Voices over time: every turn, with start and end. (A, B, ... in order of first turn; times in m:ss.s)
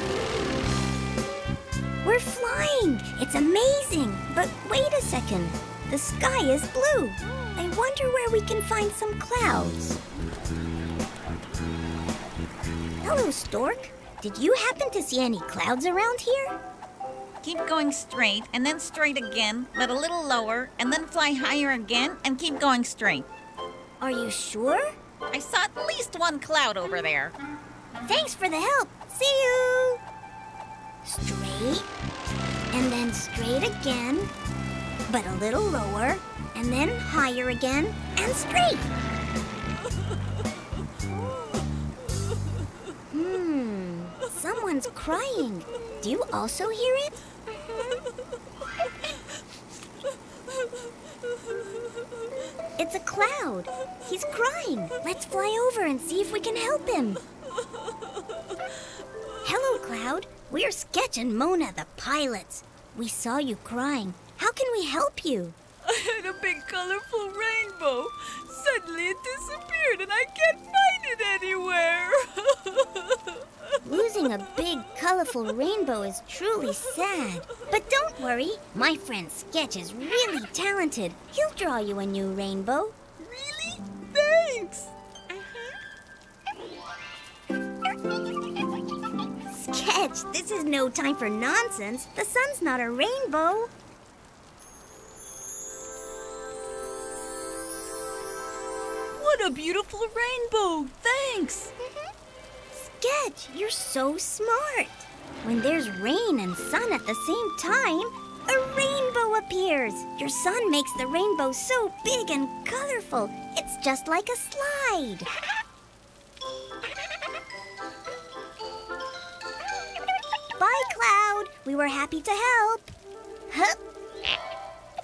0:02.0-0:10.0 A
0:13.0-0:16.6 A
0:17.4-0:23.3 B
0:24.0-0:24.9 A
0:25.3-0:27.3 B
0:28.1-0:30.0 A
0:31.0-0:31.9 A
0:32.7-0:34.3 A
0:35.1-0:38.9 A
0:43.1-0:47.2 A
0:52.8-0:57.2 A
0:59.4-1:05.6 A
1:05.8-1:13.5 C
1:13.8-1:23.0 A
1:23.5-1:24.7 C
1:29.5-1:33.7 A
1:39.2-1:41.7 C
1:42.7-1:55.3 A
2:00.6-2:02.9 A
2:03.5-2:03.8 A